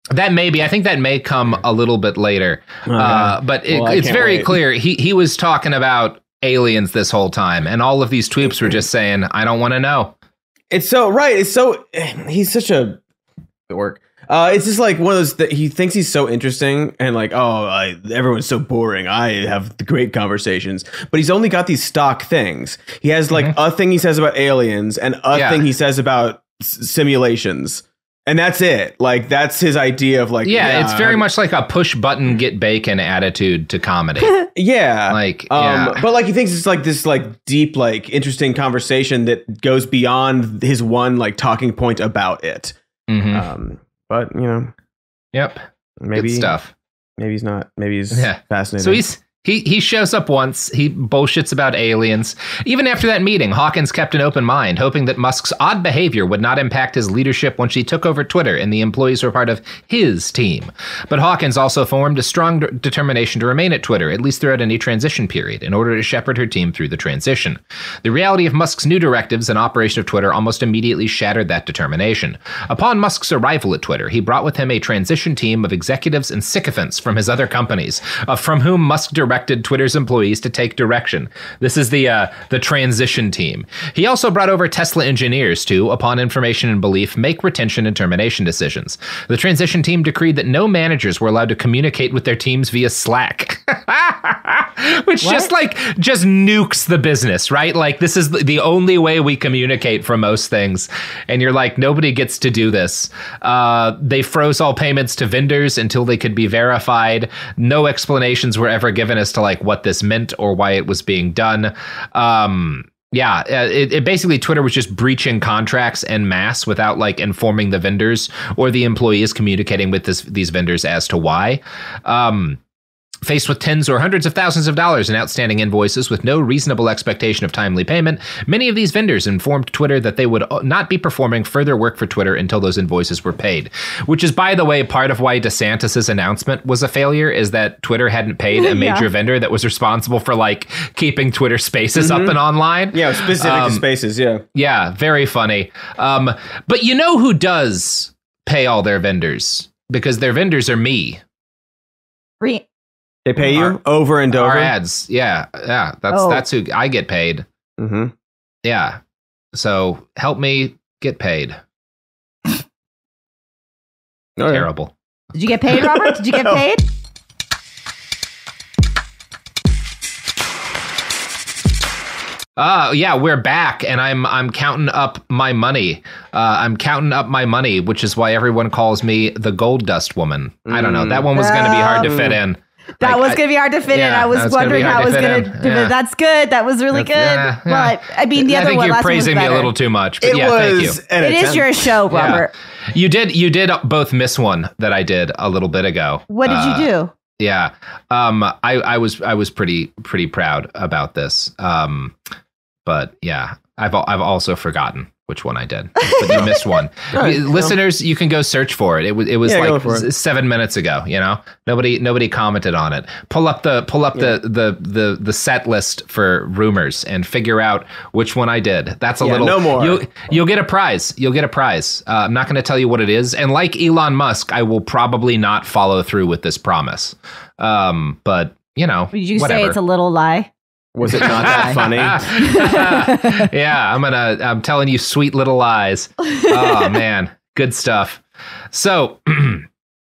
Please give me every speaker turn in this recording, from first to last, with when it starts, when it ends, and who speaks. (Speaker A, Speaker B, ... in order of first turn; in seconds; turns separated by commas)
Speaker A: 0.1-10.1, Speaker B: 2.9-4.5, Speaker B: 10.7-13.0, Speaker B: 13.7-31.2, Speaker A: 25.3-25.6, Speaker A: 30.4-34.5, Speaker B: 34.6-42.8, Speaker A: 35.1-36.0, Speaker A: 43.1-43.5, Speaker B: 43.3-44.7, Speaker A: 45.3-45.6, Speaker B: 46.0-46.5, Speaker A: 46.1-46.7, Speaker B: 47.2-49.0, Speaker A: 48.1-122.6, Speaker C: 95.2-95.5, Speaker A: 123.2-143.8, Speaker C: 138.6-139.1, Speaker B: 142.0-142.4, Speaker B: 142.9-144.4, Speaker A: 144.5-151.2, Speaker C: 152.4-152.7, Speaker B: 153.2-154.7, Speaker A: 153.4-153.8, Speaker A: 154.3-157.5, Speaker C: 156.1-156.4, Speaker B: 157.8-158.1, Speaker A: 158.6-159.0, Speaker A: 159.5-161.6, Speaker B: 164.4-164.7, Speaker A: 164.5-164.9, Speaker C: 165.3-166.8, Speaker B: 165.7-166.7, Speaker A: 172.6-185.9, Speaker B: 180.7-181.3, Speaker C: 181.3-182.2, Speaker B: 182.0-182.4, Speaker C: 183.0-189.7, Speaker A: 186.9-191.0, Speaker B: 190.2-192.0, Speaker C: 191.2-192.5, Speaker A: 192.1-202.2, Speaker C: 196.3-197.1, Speaker A: 202.8-229.8, Speaker C: 206.3-206.6, Speaker B: 207.1-207.8, Speaker B: 209.4-210.1, Speaker B: 219.2-220.2, Speaker C: 229.1-230.5, Speaker B: 230.9-232.3, Speaker C: 231.1-233.5, Speaker A: 231.2-239.7